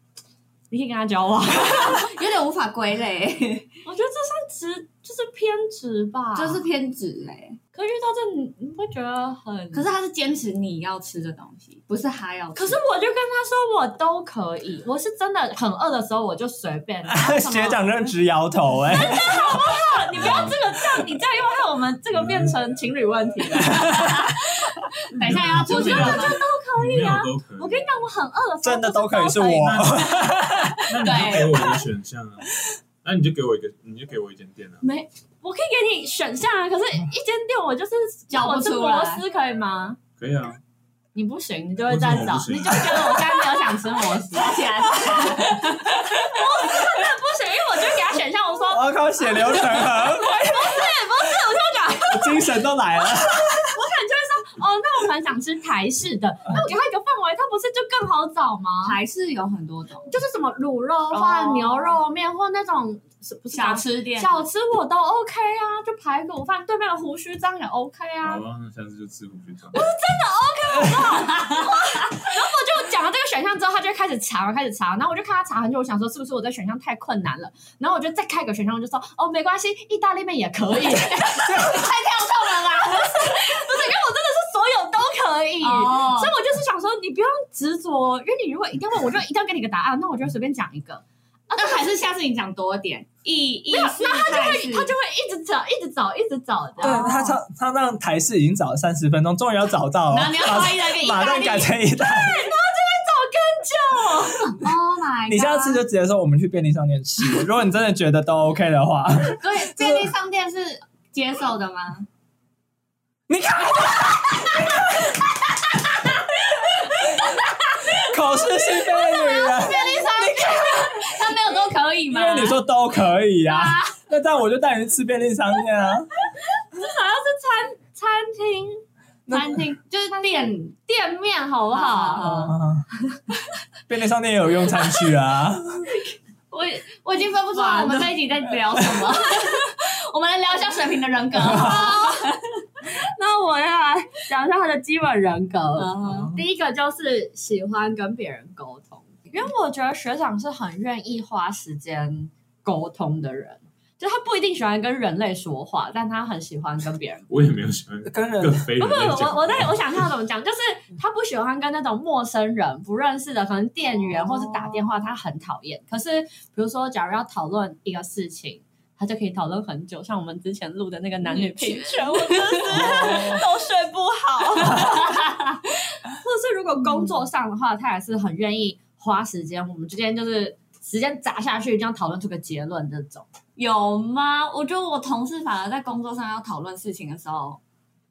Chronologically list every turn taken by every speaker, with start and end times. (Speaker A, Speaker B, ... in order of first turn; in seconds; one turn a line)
Speaker A: 0.7-2.1
Speaker B: 1.8-3.7
Speaker A: 3.8-6.6
Speaker B: 6.3-7.6
Speaker A: 7.7-9.9
Speaker B: 9.7-12.8
Speaker A: 12.5-17.9
Speaker C: 17.1-19.5
Speaker A: 18.9-30.8
Speaker D: 20.1-21.0
Speaker D: 22.1-22.7
Speaker C: 23.7-24.2
Speaker B: 25.1-26.4
Speaker D: 25.2-28.0
Speaker C: 28.6-30.8
Speaker D: 29.6-30.2
Speaker D: 30.9-34.8
Speaker B: 31.0-31.8
Speaker A: 34.8-40.0
Speaker B: 38.3-39.2
Speaker D: 40.2-40.6
Speaker A: 41.1-52.5
Speaker D: 41.9-43.3
Speaker B: 44.3-46.3
Speaker C: 48.7-50.9
Speaker C: 52.1-53.7
Speaker A: 53.1-59.0
Speaker B: 58.8-60.1
Speaker A: 60.1-68.4
Speaker B: 61.1-62.0
Speaker B: 63.5-64.5
Speaker D: 68.2-69.9
Speaker A: 69.7-81.8
Speaker B: 71.1-71.7
Speaker B: 81.2-83.3
Speaker A: 82.5-91.0
Speaker B: 85.6-86.3
Speaker B: 91.5-94.9
Speaker A: 93.7-97.3
Speaker B: 96.8-97.3
Speaker C: 96.8-102.5
Speaker B: 100.1-101.7
Speaker A: 101.9-104.6
Speaker B: 104.5-105.8
Speaker C: 105.3-110.1
Speaker B: 109.4-112.1
Speaker C: 113.3-115.1
Speaker C: 116.7-117.3
Speaker C: 117.9-120.4
Speaker B: 118.7-122.6
Speaker A: 119.1-121.3
Speaker C: 122.1-126.1
Speaker B: 123.5-123.9
Speaker A: 126.6-128.8
Speaker C: 129.3-129.6
Speaker B: 129.3-130.8
Speaker A: 130.1-132.5
Speaker B: 131.7-132.5
Speaker C: 132.2-132.9
Speaker C: 133.9-135.9
Speaker B: 136.5-142.6
Speaker A: 137.5-138.2
Speaker A: 141.4-142.3
Speaker A: 142.8-157.3
Speaker B: 145.8-146.3
Speaker C: 146.0-146.4
Speaker D: 157.3-160.0
Speaker C: 158.1-158.7
Speaker A: 158.8-175.0
Speaker B: 164.1-164.7
Speaker B: 171.2-173.3
Speaker C: 172.7-173.4
Speaker B: 174.6-175.6
Speaker A: 176.2-183.2
Speaker B: 183.6-187.6